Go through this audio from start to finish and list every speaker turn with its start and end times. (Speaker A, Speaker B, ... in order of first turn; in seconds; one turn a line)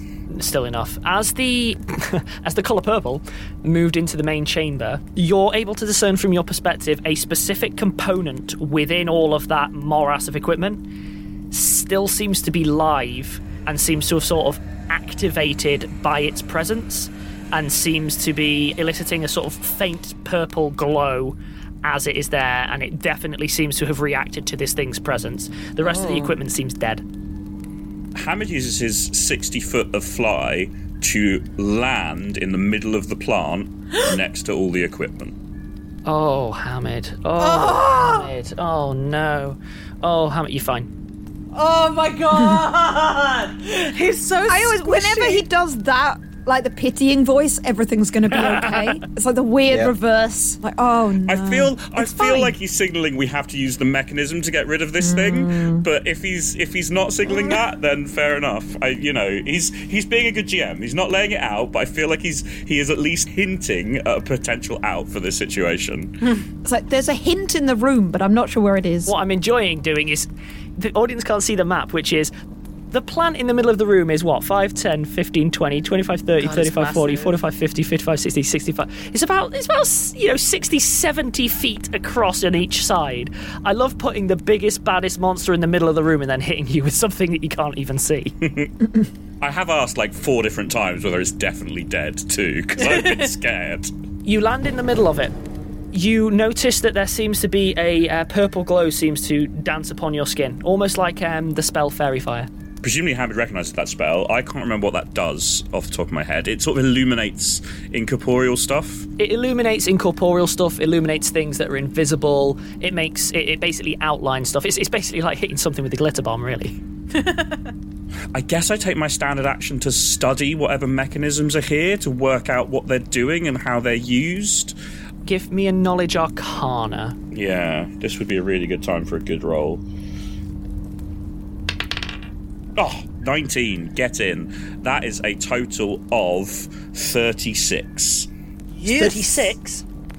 Speaker A: 0.3-10.8
Speaker A: 11.5-27.0
Speaker B: 25.9-26.3
Speaker C: 28.1-35.3
Speaker A: 36.0-40.9
Speaker B: 37.4-38.3
Speaker B: 41.5-45.4
Speaker D: 44.5-52.5
Speaker C: 51.2-66.3
Speaker D: 55.0-55.8
Speaker D: 66.6-69.1
Speaker A: 69.1-72.3
Speaker A: 72.9-88.3
Speaker B: 76.4-77.3
Speaker C: 88.4-88.7
Speaker C: 89.4-93.9
Speaker B: 92.8-93.2
Speaker A: 94.2-95.3
Speaker A: 95.9-102.5
Speaker C: 102.8-109.1
Speaker A: 109.2-116.8
Speaker B: 117.2-117.5
Speaker C: 118.3-124.7
Speaker A: 125.2-127.2
Speaker C: 127.3-129.8
Speaker C: 132.8-138.3
Speaker A: 138.8-139.8
Speaker B: 138.8-139.2